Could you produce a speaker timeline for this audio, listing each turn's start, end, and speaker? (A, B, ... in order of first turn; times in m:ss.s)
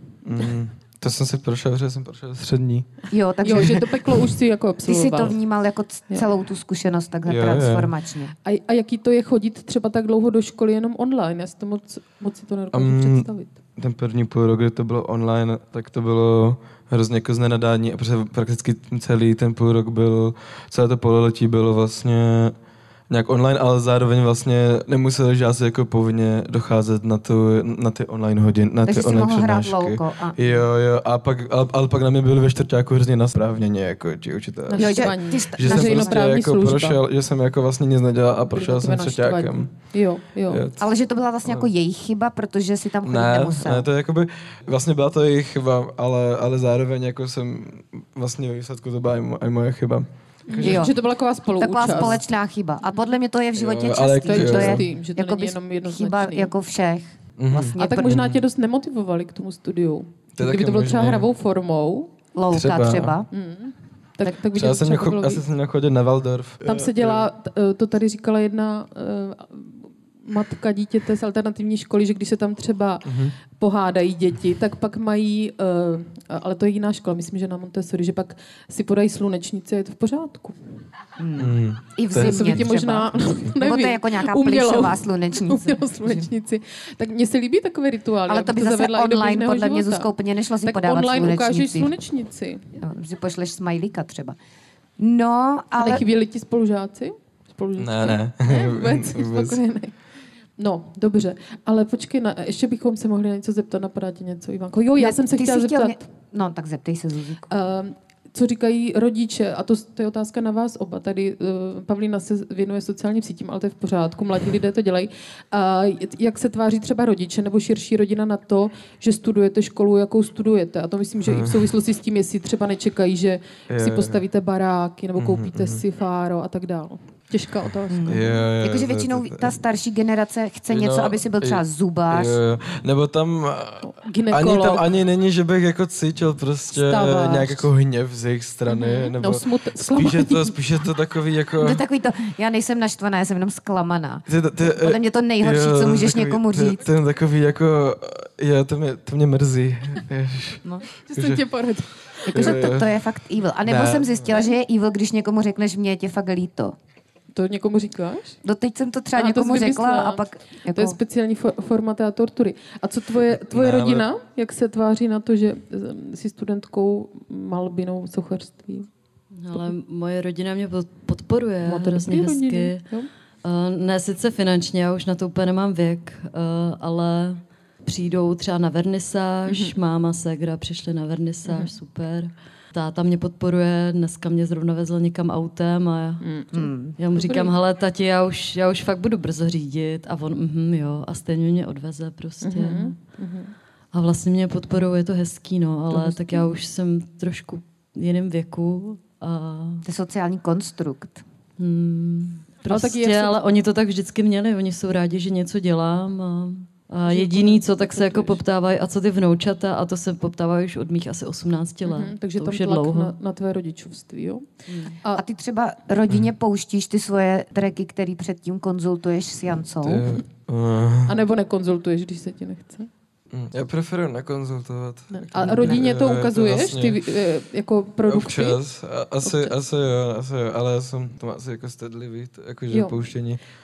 0:00.2-0:02.9 A
0:03.1-0:04.2 B
0:03.4-0:05.4 C
0:04.8-0:08.3 B
0:07.3-0:07.9 A
0:08.4-0:13.6 C
0:12.7-0:22.6 A
0:23.1-0:39.7 A
0:28.8-0:30.5 B
0:34.7-0:37.0 C
0:34.8-0:36.2 B
0:38.5-0:40.6 C
0:40.5-0:40.9 A
0:40.8-0:43.9 B
0:41.4-0:41.7 A
0:43.0-0:50.9 A
0:50.5-0:52.2 C
0:50.6-0:51.0 B
0:51.6-0:58.2 B
0:51.8-0:52.2 A
0:53.6-0:54.8 A
0:54.2-0:56.5 C
0:57.4-0:58.4 A
0:57.8-1:02.1 C
1:00.4-1:01.3 A
1:02.4-1:03.3 B
1:02.5-1:03.2 A
1:03.3-1:05.4 C
1:04.5-1:07.3 A
1:06.6-1:20.6 C
1:13.0-1:13.3 A
1:21.2-1:26.3 B
1:21.4-1:22.7 A
1:22.1-1:30.1 C
1:28.3-1:31.9 B
1:30.6-1:32.6 C
1:32.8-1:34.4 B
1:35.0-1:36.0 B
1:35.8-1:39.9 C
1:37.8-1:39.6 A
1:40.6-1:46.0 C
1:45.0-1:47.5 B
1:47.5-2:08.4 C
2:01.2-2:01.7 A
2:03.7-2:04.2 A
2:05.2-2:05.8 A
2:07.9-2:12.4 B
2:08.0-2:09.6 A
2:10.7-2:21.8 A
2:13.8-2:14.8 C
2:16.7-2:17.7 C
2:18.7-2:20.6 C
2:21.6-2:26.8 B
2:24.3-2:31.5 A
2:31.1-2:32.7 C
2:32.3-2:36.8 B
2:32.3-2:33.0 A
2:33.6-2:34.4 A
2:37.3-2:38.4 C
2:38.4-2:41.0 B
2:39.2-2:48.9 C
2:43.3-2:44.1 A
2:49.4-2:52.8 D
2:51.6-2:53.1 C
2:53.4-3:06.2 D
2:59.5-2:59.7 C
3:01.5-3:01.7 C
3:06.2-3:07.5 C
3:06.5-3:07.0 B
3:07.0-3:13.0 D
3:12.4-3:13.5 C
3:13.9-3:19.8 D
3:15.9-3:16.5 C
3:19.8-3:21.2 B
3:21.6-3:33.1 D
3:22.7-3:23.4 C
3:27.0-3:28.4 C
3:31.8-3:34.4 C
3:34.7-3:40.1 B
3:39.8-3:41.2 A
3:41.1-3:42.9 C
3:43.3-3:47.0 A
3:45.1-3:48.6 C
3:45.4-3:45.8 B
3:48.0-3:53.4 A
3:52.7-3:53.0 C